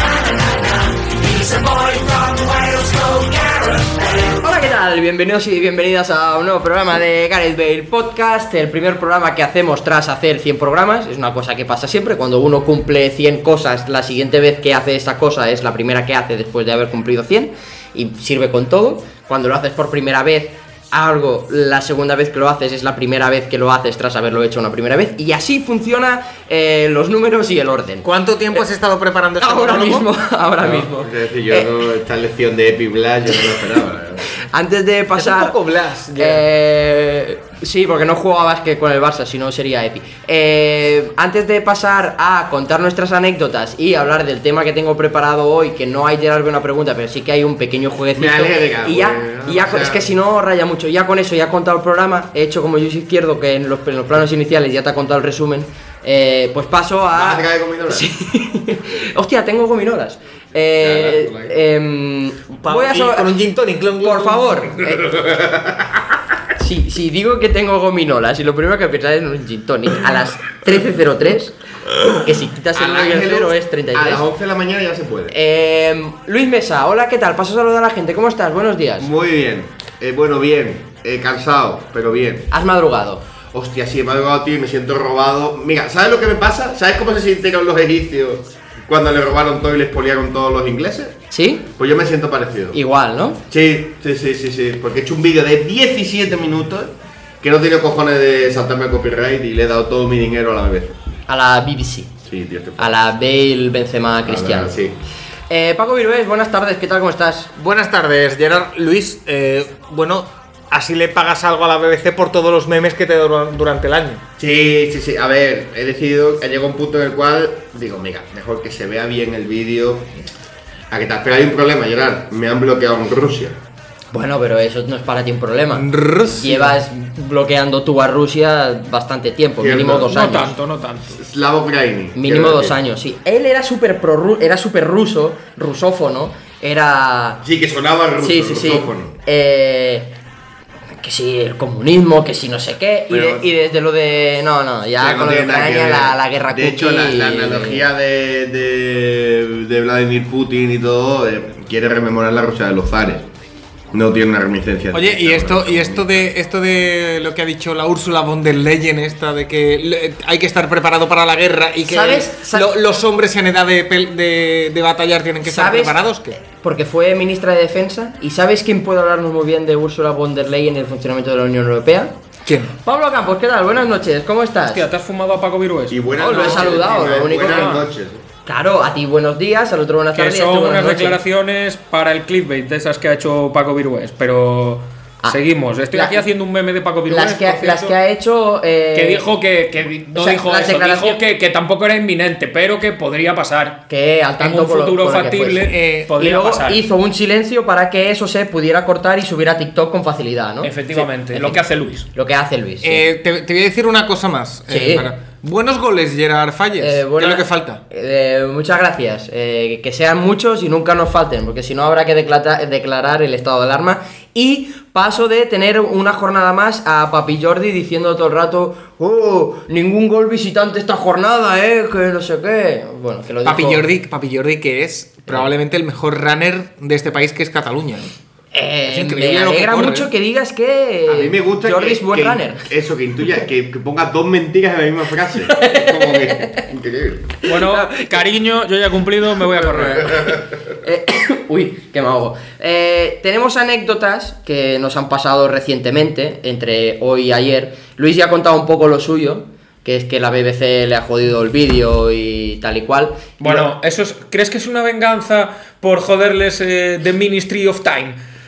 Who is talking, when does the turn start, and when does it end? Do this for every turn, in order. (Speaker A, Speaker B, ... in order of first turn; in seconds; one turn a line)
Speaker A: 1.5-3.2
Speaker A: 4.0-28.6
Speaker B: 28.0-30.1
Speaker A: 29.4-31.7
Speaker C: 30.6-34.2
Speaker A: 34.3-35.6
Speaker B: 35.2-36.4
Speaker A: 36.1-63.4
Speaker C: 48.2-50.1
Speaker C: 57.1-58.1
Speaker C: 60.8-61.6
Speaker B: 62.6-64.6
Speaker A: 64.0-65.1
Speaker C: 64.9-66.0
Speaker A: 66.6-71.6
Speaker A: 72.1-74.3
Speaker C: 72.7-75.3
Speaker A: 75.3-79.1
Speaker C: 79.0-82.5
Speaker A: 82.5-83.2
Speaker C: 83.5-91.2
Speaker A: 91.3-91.7
Speaker C: 91.7-92.8
Speaker A: 92.7-93.4
Speaker C: 93.5-101.0
Speaker A: 101.3-102.1
Speaker C: 102.3-103.0
Speaker A: 102.8-104.7
Speaker C: 104.3-105.0
Speaker A: 105.5-107.5
Speaker B: 107.6-114.2
Speaker C: 114.4-120.1
Speaker C: 120.9-123.6
Speaker A: 124.1-130.5
Speaker B: 125.7-126.8
Speaker C: 129.6-130.3
Speaker D: 130.1-131.2
Speaker C: 131.2-132.8
Speaker A: 132.2-137.4
Speaker C: 137.4-139.1
Speaker A: 138.2-140.1
Speaker A: 141.0-147.8
Speaker C: 143.1-143.5
Speaker C: 145.0-153.3
Speaker C: 153.9-156.3
Speaker B: 154.9-166.4
Speaker A: 161.9-162.7
Speaker A: 165.4-172.1
Speaker B: 172.5-172.7
Speaker A: 172.8-174.8
Speaker D: 174.7-176.2
Speaker C: 175.9-178.3
Speaker A: 176.2-177.8
Speaker D: 177.4-177.8
Speaker A: 178.5-181.2
Speaker D: 180.2-187.9
Speaker A: 185.9-186.3
Speaker A: 187.1-189.2
Speaker D: 188.9-193.8
Speaker A: 190.2-191.2
Speaker A: 193.9-203.0
Speaker D: 194.4-196.8
Speaker B: 195.7-196.1
Speaker D: 200.6-202.1
Speaker B: 202.8-207.8
Speaker A: 204.7-205.1
Speaker A: 206.8-223.9
Speaker B: 223.4-228.1
Speaker A: 228.5-232.7
Speaker B: 228.9-230.1
Speaker C: 231.1-237.3
Speaker A: 235.4-236.7
Speaker A: 237.4-238.2
Speaker D: 237.5-240.2
Speaker A: 239.4-253.7
Speaker D: 253.4-258.2